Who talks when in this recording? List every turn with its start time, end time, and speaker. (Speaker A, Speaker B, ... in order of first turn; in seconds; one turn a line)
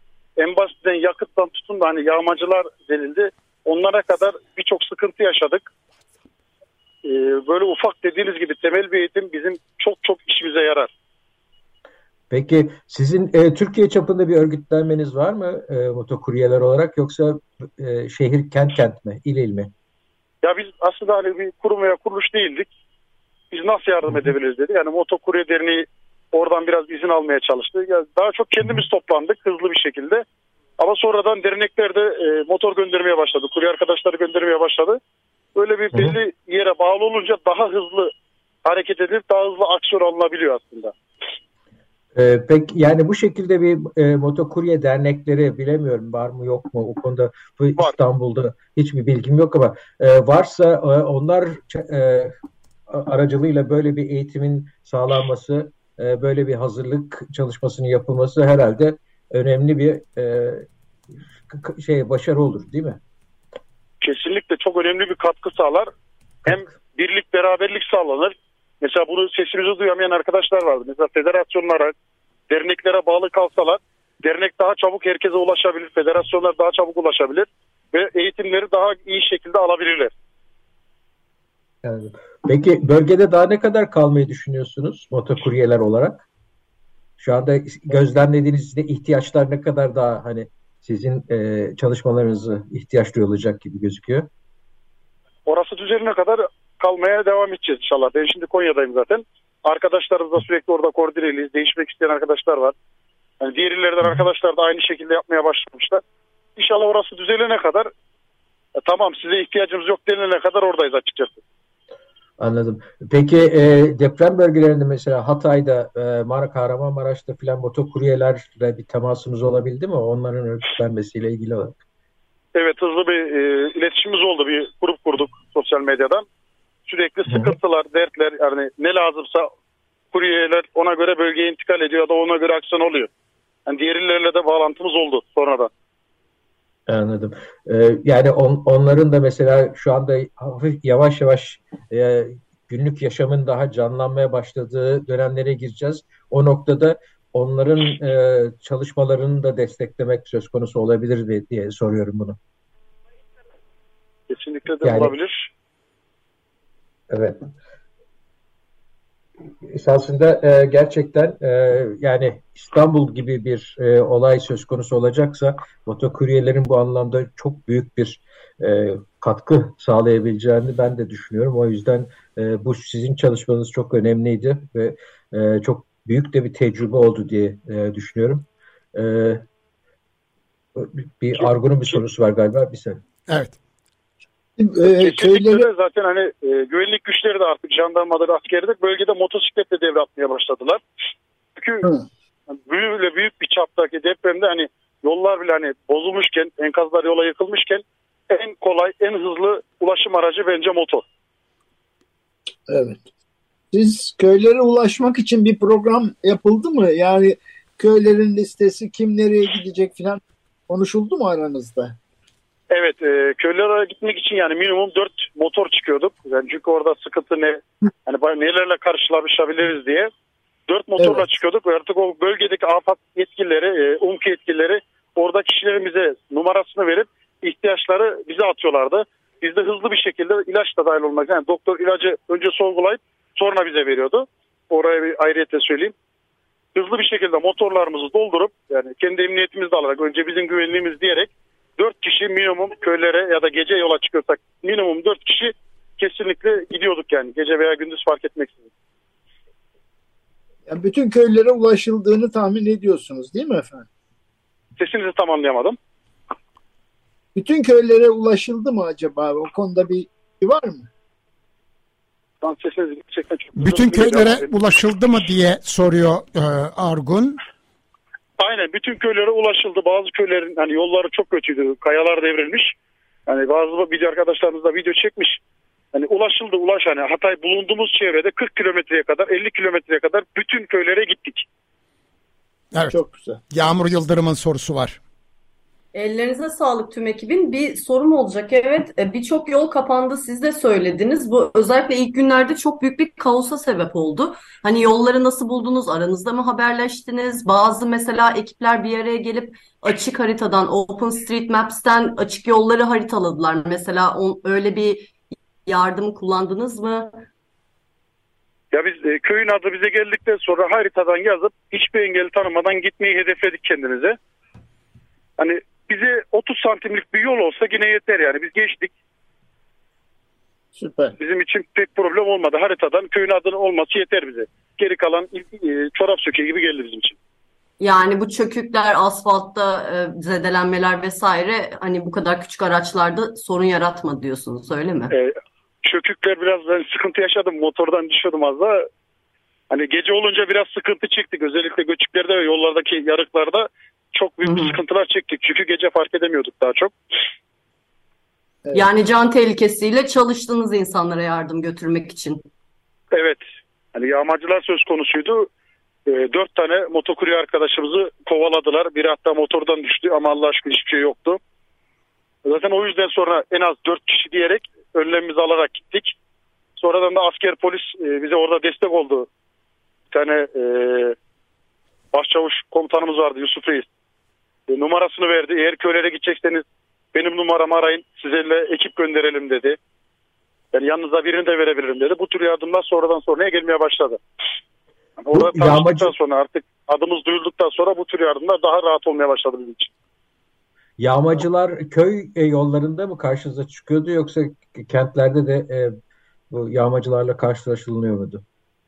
Speaker A: 0.4-5.7
Speaker A: 7.0-10.9
Speaker B: 12.3-19.7
Speaker A: 20.4-22.7
Speaker A: 23.5-30.2
Speaker A: 30.8-35.0
Speaker A: 35.5-38.1
Speaker A: 38.6-40.9
Speaker B: 42.2-52.4
Speaker B: 52.9-60.7
Speaker B: 61.5-63.0
Speaker A: 64.0-65.9
Speaker A: 66.5-71.9
Speaker A: 72.5-80.1
Speaker B: 81.8-86.2
Speaker B: 87.2-94.3
Speaker A: 95.5-102.8
Speaker A: 103.4-106.0
Speaker A: 106.6-107.9
Speaker A: 108.8-111.4
Speaker B: 112.4-121.8
Speaker A: 122.5-126.2
Speaker A: 126.9-129.5
Speaker B: 127.3-127.5
Speaker A: 130.1-133.1
Speaker A: 133.7-135.7
Speaker B: 136.9-152.4
Speaker A: 154.3-155.5
Speaker B: 154.8-155.2
Speaker B: 157.1-157.5
Speaker B: 159.7-179.4
Speaker B: 180.8-183.0
Speaker C: 183.3-183.6
Speaker D: 184.6-185.7
Speaker A: 184.9-190.8
Speaker A: 191.6-191.8
Speaker A: 192.5-201.0
Speaker D: 202.7-203.0
Speaker D: 203.7-211.9
Speaker A: 212.7-220.1
Speaker A: 220.7-235.9
Speaker A: 236.7-248.7
Speaker D: 250.7-253.9
Speaker A: 254.8-255.8
Speaker D: 257.4-260.9
Speaker A: 262.4-264.5
Speaker C: 263.6-267.4
Speaker A: 268.4-272.7
Speaker A: 273.3-275.4
Speaker A: 275.9-281.5
Speaker C: 282.7-283.0
Speaker D: 282.9-283.4
Speaker C: 283.5-285.0
Speaker E: 285.9-305.1
Speaker E: 305.7-307.2
Speaker A: 308.7-314.2
Speaker A: 315.4-318.9
Speaker D: 320.8-321.1
Speaker A: 321.2-327.2
Speaker E: 327.8-335.1
Speaker A: 335.1-338.9
Speaker A: 339.7-346.9
Speaker E: 344.4-344.8
Speaker E: 348.7-352.4
Speaker A: 353.1-353.4
Speaker A: 353.9-355.5
Speaker A: 356.1-361.4
Speaker A: 362.4-366.2
Speaker A: 366.8-369.3
Speaker A: 370.1-371.2
Speaker A: 372.1-373.9
Speaker A: 374.7-379.8
Speaker A: 380.7-384.2
Speaker A: 385.2-389.9
Speaker B: 385.3-386.1
Speaker B: 391.0-395.9
Speaker B: 396.5-398.4